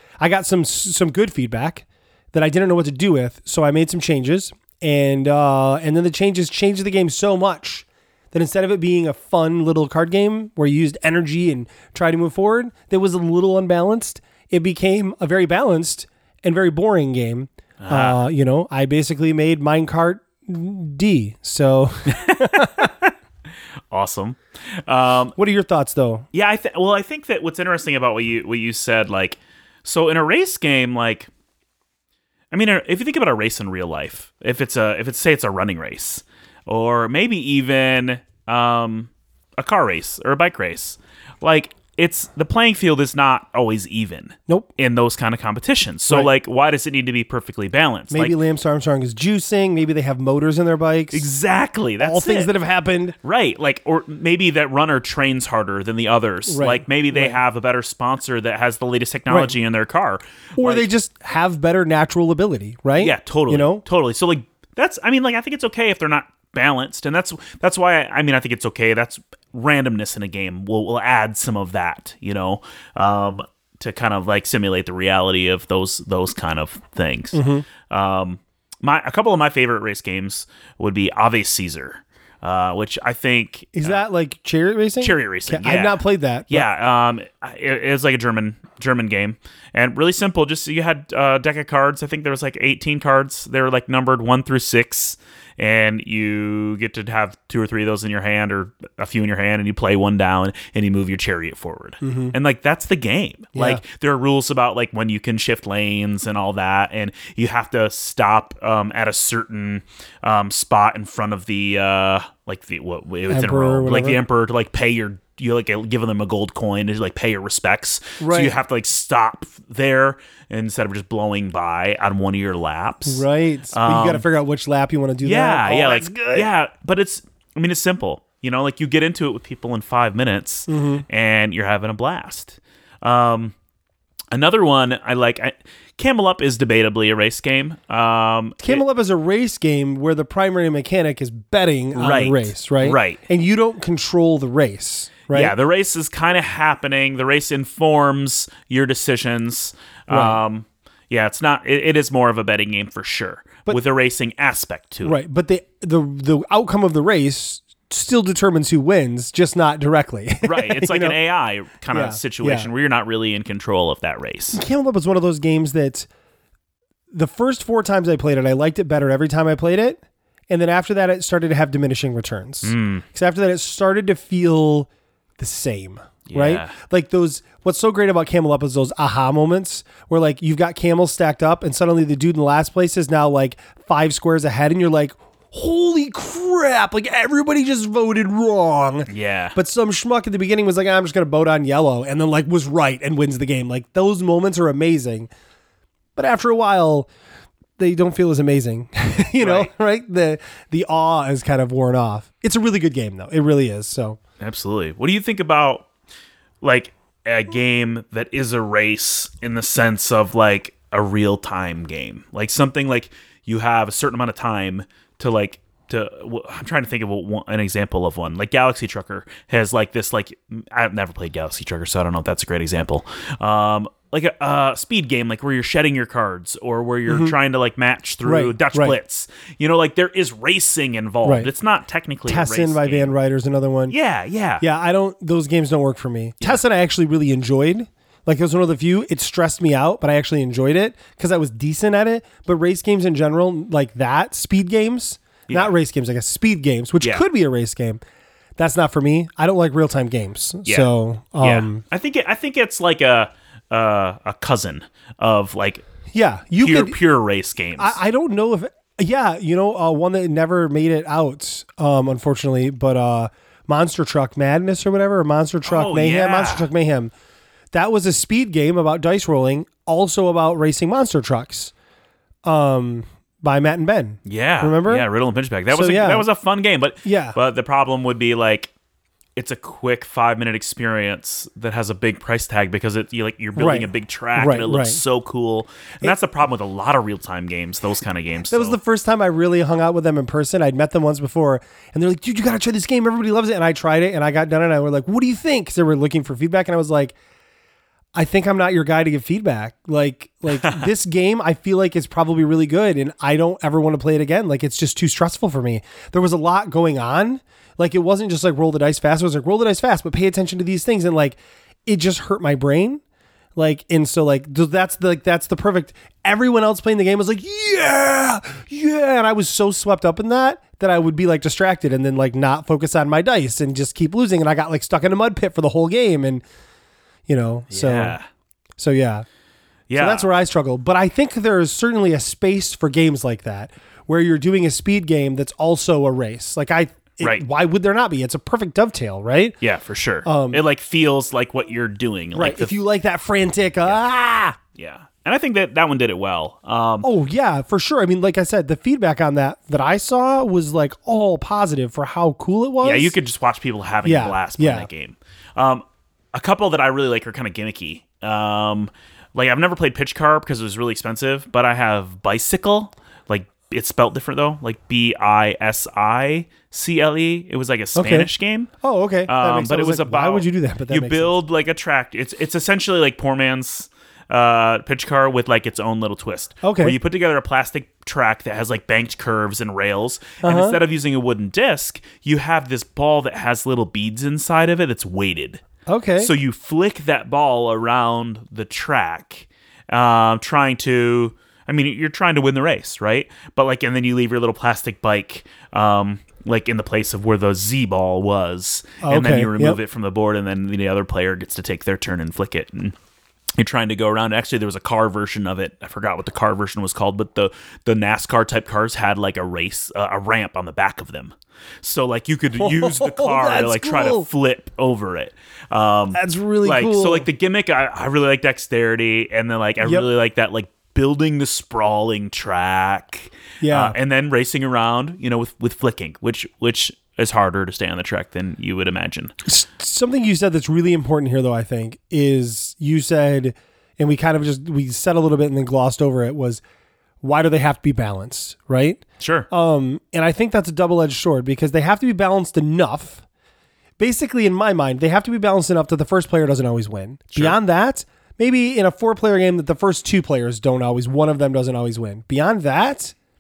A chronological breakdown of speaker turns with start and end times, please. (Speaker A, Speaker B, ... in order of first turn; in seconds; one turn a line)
Speaker A: 0.2-22.9
Speaker B: 17.8-18.2
Speaker B: 22.1-23.1
Speaker B: 23.9-25.4
Speaker A: 25.4-26.3
Speaker B: 26.3-31.3
Speaker B: 32.5-48.4
Speaker A: 48.1-51.2
Speaker B: 51.1-52.5
Speaker A: 52.0-53.1
Speaker B: 53.2-60.9
Speaker A: 56.5-57.4
Speaker A: 59.3-59.5
Speaker A: 60.6-63.8
Speaker B: 63.0-84.0
Speaker A: 77.3-77.6
Speaker A: 83.7-86.7
Speaker B: 85.0-124.2
Speaker A: 102.0-102.3
Speaker A: 103.5-103.8
Speaker A: 113.3-114.2
Speaker A: 118.2-118.5
Speaker A: 123.1-126.5
Speaker B: 125.2-133.5
Speaker A: 130.7-131.0
Speaker B: 134.3-138.8
Speaker A: 138.6-145.5
Speaker B: 141.9-143.2
Speaker B: 145.3-155.2
Speaker A: 150.1-150.4
Speaker A: 155.0-161.2
Speaker B: 160.4-164.6
Speaker A: 161.9-162.7
Speaker A: 164.5-166.1
Speaker A: 167.1-195.3
Speaker B: 172.6-173.0
Speaker B: 176.3-176.8
Speaker B: 189.1-189.6
Speaker A: 196.2-197.1
Speaker A: 197.8-204.2
Speaker B: 199.4-199.7
Speaker B: 204.4-205.9
Speaker B: 206.6-233.1
Speaker A: 227.1-227.3
Speaker A: 228.2-228.9
Speaker A: 231.2-231.5
Speaker A: 232.3-233.9
Speaker B: 233.9-234.6
Speaker A: 234.6-248.0
Speaker B: 245.5-245.7
Speaker A: 248.6-251.8
Speaker B: 250.7-255.8
Speaker A: 256.1-257.0
Speaker B: 256.6-258.0
Speaker A: 257.8-267.1
Speaker B: 265.7-266.7
Speaker A: 267.7-271.7
Speaker A: 272.4-275.1
Speaker B: 274.2-278.7
Speaker A: 275.7-276.2
Speaker A: 277.0-277.4
Speaker B: 279.4-288.8
Speaker A: 283.6-285.0
Speaker A: 288.5-297.1
Speaker A: 298.1-313.0
Speaker B: 300.5-300.9
Speaker A: 313.6-326.4
Speaker A: 327.3-328.1
Speaker B: 327.7-328.2
Speaker A: 328.8-329.2
Speaker B: 329.9-330.3
Speaker A: 329.9-339.6
Speaker B: 337.2-337.4
Speaker B: 339.6-342.7
Speaker A: 340.2-340.6
Speaker A: 342.3-344.6
Speaker B: 344.8-347.1
Speaker A: 347.0-353.1
Speaker B: 352.8-368.7
Speaker A: 354.0-354.9
Speaker A: 367.9-371.4
Speaker B: 369.3-385.6
Speaker A: 376.6-377.0
Speaker A: 380.4-380.8
Speaker A: 385.9-386.3
Speaker B: 386.2-402.9
Speaker A: 399.0-399.8
Speaker B: 403.6-429.4
Speaker A: 412.6-414.3
Speaker A: 416.1-417.3
Speaker A: 423.6-423.9
Speaker A: 429.4-436.6
Speaker A: 437.2-443.2
Speaker B: 439.2-439.5
Speaker A: 444.0-453.1